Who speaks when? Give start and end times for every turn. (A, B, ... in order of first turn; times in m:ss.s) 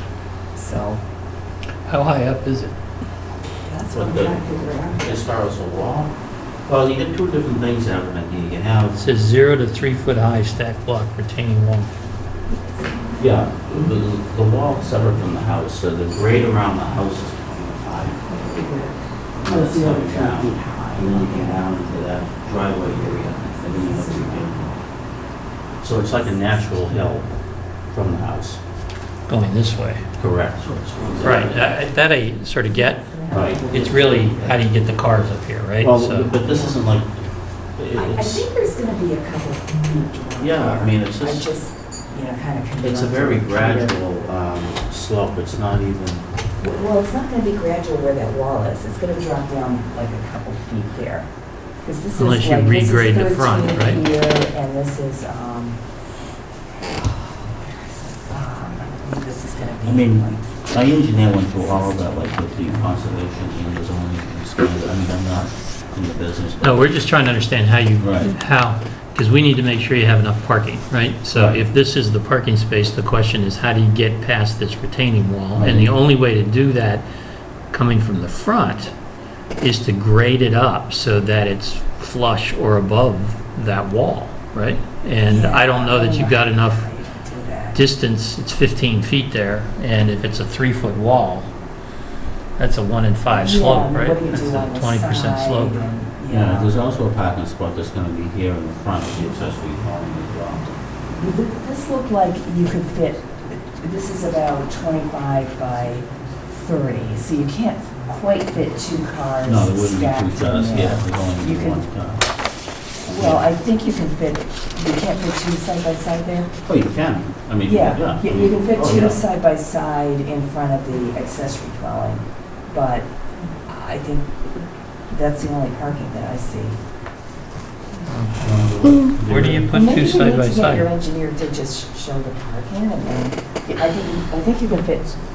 0:00.6-0:01.0 A
0:01.9-0:02.7 B
0:03.5-0:05.2 A
0:03.9-0:06.1 C
0:06.7-0:09.0 C
0:09.0-0:11.9 B
0:12.7-0:13.2 A
0:13.2-0:18.2 C
0:18.3-0:21.7 A
0:19.4-0:24.8 C
0:23.2-0:24.8 A
0:25.8-0:27.3 C
0:27.9-0:28.6 C
0:29.3-0:30.0 B
0:30.2-0:31.7 C
0:31.2-0:36.3 B
0:32.7-0:34.6 A
0:33.3-0:33.7 C
0:35.8-0:37.2 C
0:36.4-0:36.8 A
0:37.8-0:38.5 C
0:38.0-0:44.0 A
0:40.4-0:41.5 C
0:42.8-0:46.2 C
0:46.6-0:51.3 A
0:51.8-0:55.8 A
0:52.1-0:54.0 B
0:56.9-1:00.5 A
0:59.8-1:06.6 C
1:06.6-1:17.0 B
1:08.0-1:08.3 C
1:11.3-1:11.6 C
1:15.6-1:15.9 C
1:17.7-1:18.9 B
1:19.6-1:26.9 B
1:25.2-1:27.8 A
1:27.7-1:31.5 B
1:32.6-1:35.8 B
1:33.3-1:36.8 A
1:36.3-1:40.7 C
1:41.1-1:51.8 A
1:49.4-1:52.2 C
1:53.0-1:53.4 C
1:53.1-1:56.5 A
1:56.6-1:59.2 C
1:57.6-2:03.1 A
2:03.7-2:04.4 A
2:05.1-2:06.8 A
2:08.0-2:10.9 B
2:08.4-2:09.7 C
2:09.7-2:15.2 A